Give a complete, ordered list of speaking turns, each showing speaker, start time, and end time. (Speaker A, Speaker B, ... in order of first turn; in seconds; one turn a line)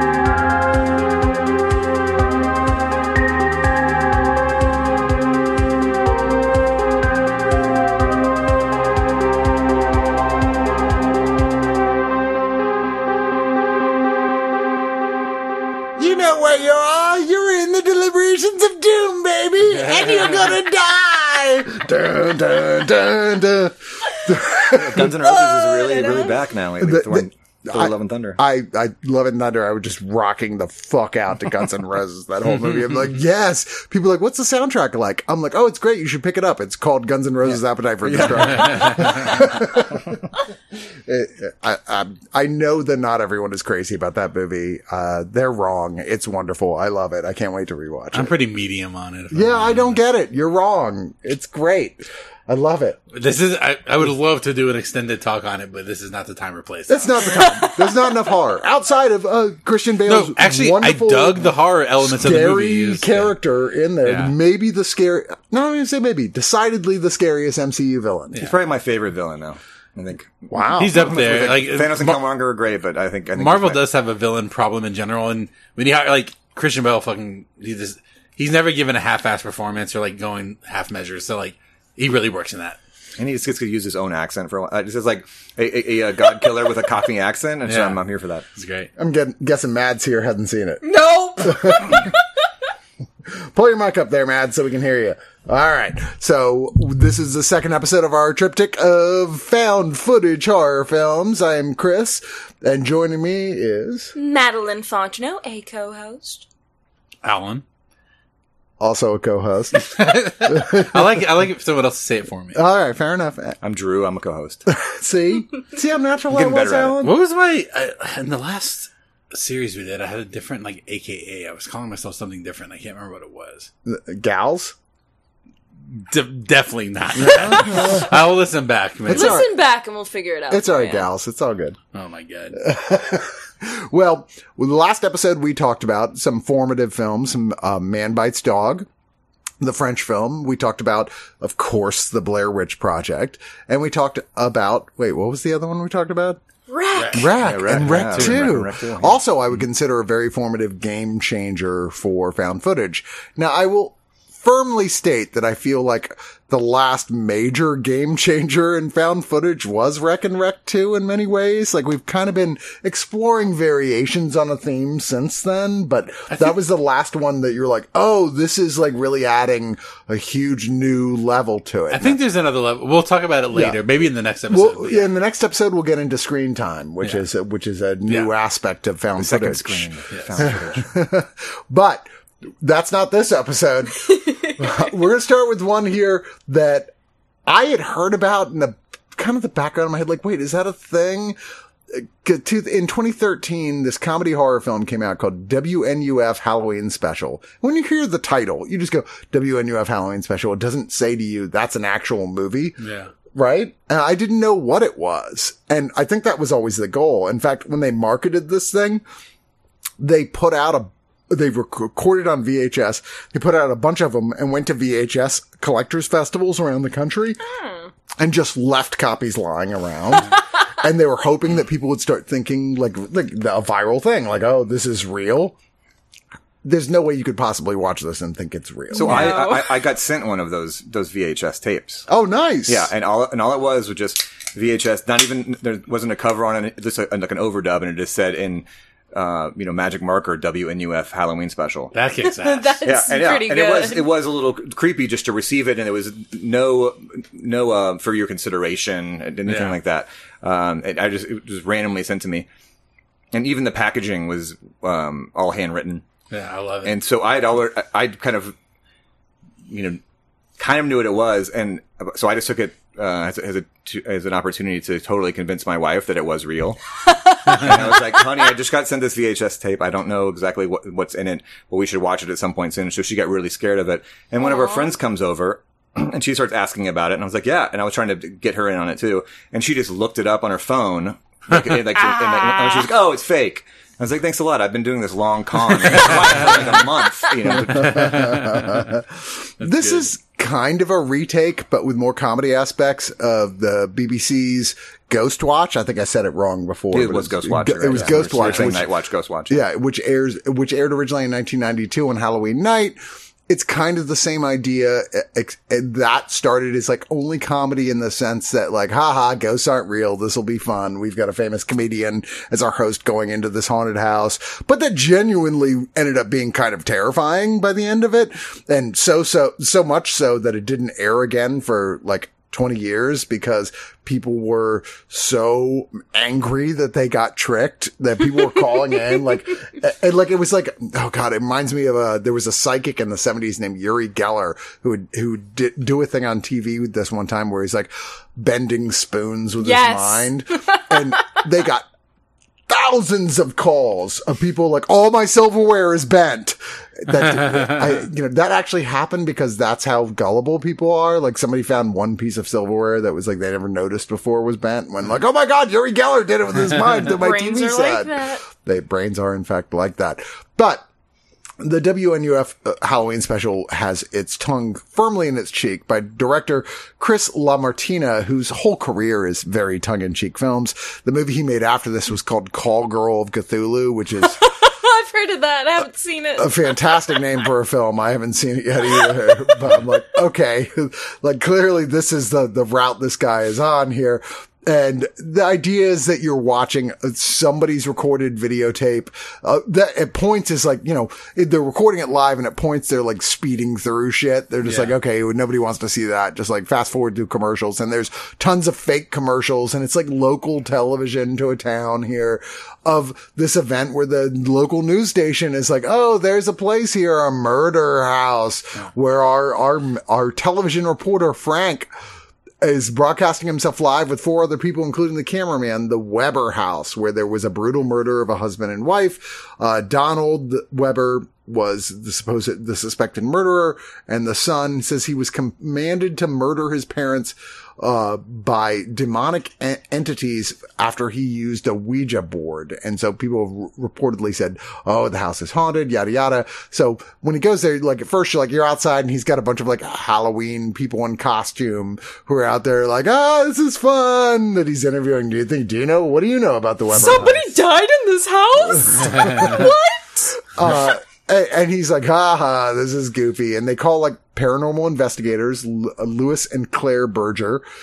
Speaker A: 16.0-25.2
Speaker B: 19.6-20.6
Speaker C: 24.7-28.4
Speaker D: 25.0-26.4
Speaker A: 26.8-48.3
Speaker B: 32.4-33.1
Speaker C: 38.0-39.6
Speaker B: 38.4-39.2
Speaker B: 48.1-50.0
Speaker A: 49.3-53.0
Speaker B: 53.1-57.8
Speaker A: 56.9-68.5
Speaker B: 60.1-63.3
Speaker B: 64.0-64.3
Speaker C: 68.4-73.8
Speaker A: 70.5-71.1
Speaker B: 70.8-72.2
Speaker B: 73.4-82.8
Speaker C: 83.2-88.5
Speaker B: 87.7-88.0
Speaker B: 88.5-88.9
Speaker A: 89.0-90.8
Speaker D: 90.8-92.2
Speaker A: 91.4-92.1
Speaker A: 93.3-104.1
Speaker D: 104.1-106.5
Speaker B: 107.2-107.6
Speaker A: 108.8-109.8
Speaker B: 109.8-112.6
Speaker A: 110.4-111.2
Speaker A: 112.5-113.6
Speaker C: 113.6-114.6
Speaker A: 114.7-117.2
Speaker C: 116.3-117.0
Speaker B: 117.0-123.7
Speaker A: 123.8-124.8
Speaker B: 126.1-129.4
Speaker A: 127.2-128.1
Speaker D: 127.5-128.1
Speaker A: 129.1-129.5
Speaker D: 129.1-131.1
Speaker A: 130.5-131.8
Speaker B: 131.9-132.6
Speaker A: 132.6-138.9
Speaker A: 139.6-146.4
Speaker D: 146.7-147.3
Speaker B: 147.0-148.6
Speaker A: 147.1-172.2
Speaker C: 147.4-149.2
Speaker B: 166.3-166.6
Speaker B: 171.9-175.1
Speaker A: 174.5-186.9
Speaker C: 179.2-180.9
Speaker B: 180.1-180.5
Speaker D: 184.1-184.6
Speaker A: 187.5-191.4
Speaker A: 191.9-202.8
Speaker B: 202.8-203.1
Speaker A: 203.3-209.0
Speaker A: 210.0-217.4
Speaker D: 217.4-217.9
Speaker A: 218.2-225.6
Speaker A: 226.6-229.4
Speaker D: 228.9-229.8
Speaker C: 228.9-232.1
Speaker A: 232.1-232.9
Speaker C: 232.7-241.9
Speaker B: 241.9-242.8
Speaker D: 242.2-244.1
Speaker C: 242.8-252.5
Speaker B: 249.5-249.8
Speaker C: 253.3-256.1
Speaker B: 256.3-257.0
Speaker C: 256.9-258.6
Speaker C: 259.7-260.0
Speaker C: 260.6-288.6
Speaker D: 267.1-268.2
Speaker D: 274.4-274.9
Speaker D: 282.0-282.9
Speaker B: 285.8-286.7
Speaker A: 287.5-298.9
Speaker B: 287.8-288.9
Speaker B: 289.6-290.1
Speaker C: 296.9-299.6
Speaker B: 298.2-298.8
Speaker A: 299.5-303.0
Speaker A: 303.5-341.9
Speaker D: 339.6-341.4
Speaker A: 342.7-360.8
Speaker B: 347.1-347.9
Speaker D: 357.1-358.4
Speaker A: 361.6-374.4
Speaker D: 374.3-377.0
Speaker A: 376.4-411.9
Speaker B: 394.6-394.9
Speaker A: 412.6-447.5
Speaker D: 446.9-450.8
Speaker A: 448.7-449.7
Speaker B: 449.1-449.5
Speaker A: 450.6-457.6